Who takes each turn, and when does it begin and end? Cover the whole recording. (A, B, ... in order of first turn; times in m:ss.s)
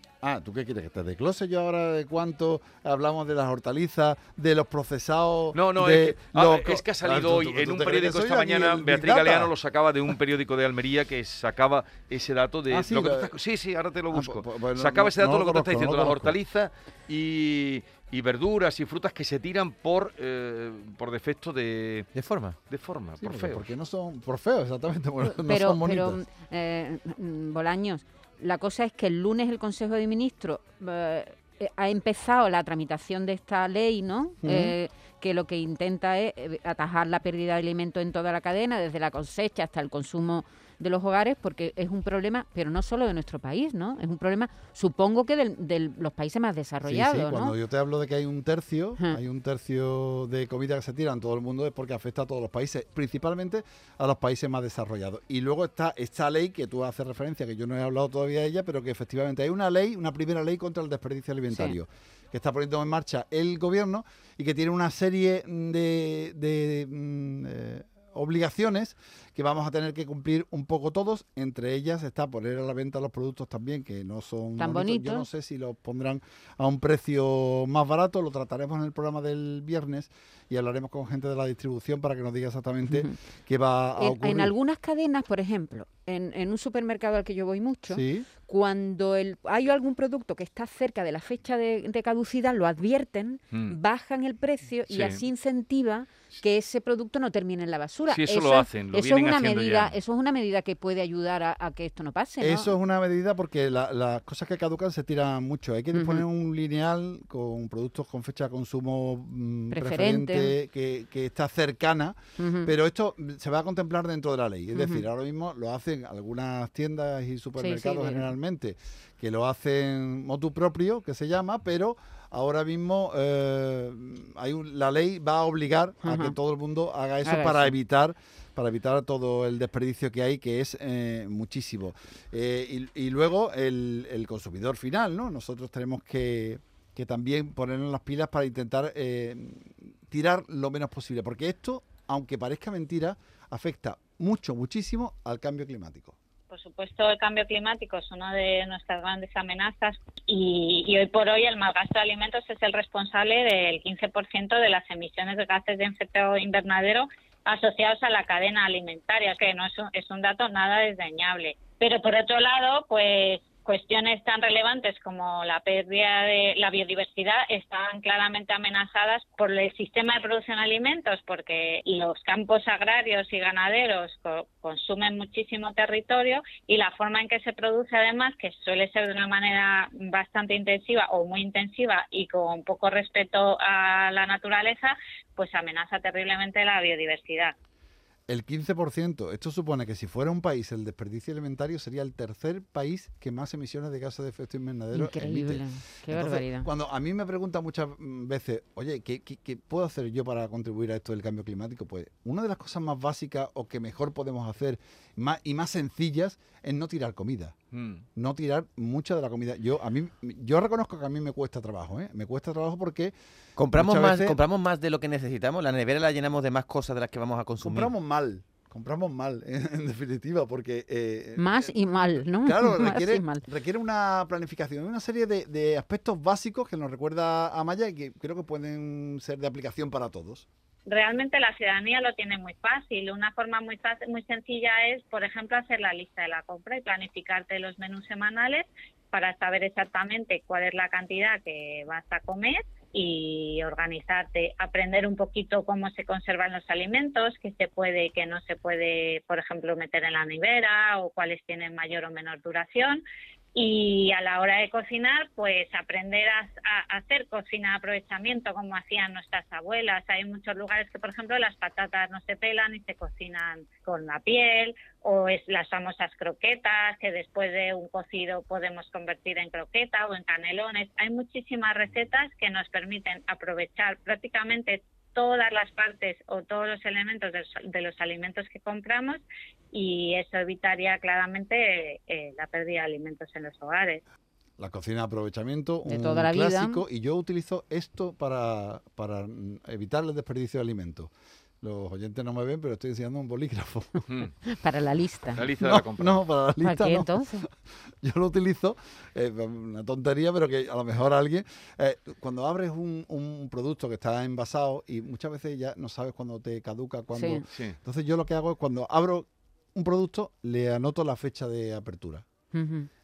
0:00.2-0:09.5 A
0:05.5-0:22.1 B
0:12.7-0:13.4 A
0:14.1-0:16.4 A
0:22.1-0:22.6 C
0:22.7-0:23.7 B
0:23.2-0:26.2 A
0:25.2-0:47.6 D
0:34.4-0:34.8 A
0:46.8-1:24.5 A
1:01.5-1:01.8 D
1:14.6-1:15.3 D
1:22.9-1:23.1 D
1:24.0-1:42.7 D
1:27.9-1:28.3 A
1:34.9-1:35.2 B
1:38.1-1:40.0 B
1:42.4-2:26.1 A
1:45.9-1:46.2 D
1:49.7-1:50.5 D
1:52.4-1:52.7 D
1:54.7-1:55.0 D
1:57.6-1:58.3 D
2:06.0-2:06.3 D
2:07.2-2:07.7 D
2:26.5-3:07.5 E
3:08.3-3:27.5 A
3:14.9-3:16.7 D
3:27.7-3:28.0 B
3:28.2-3:33.1 A
3:33.6-3:37.9 C
3:33.7-3:34.4 A
3:37.6-3:50.4 A
3:41.4-3:43.4 D
3:50.9-4:13.0 E
4:13.5-4:44.0 E
4:44.6-4:51.1 A
4:45.8-4:46.8 D
4:51.6-4:54.0 A
4:54.4-4:55.4 D
4:55.3-4:56.2 B
4:55.6-5:12.2 A
4:56.6-4:57.4 D
5:07.1-5:07.4 D
5:12.5-5:12.9 D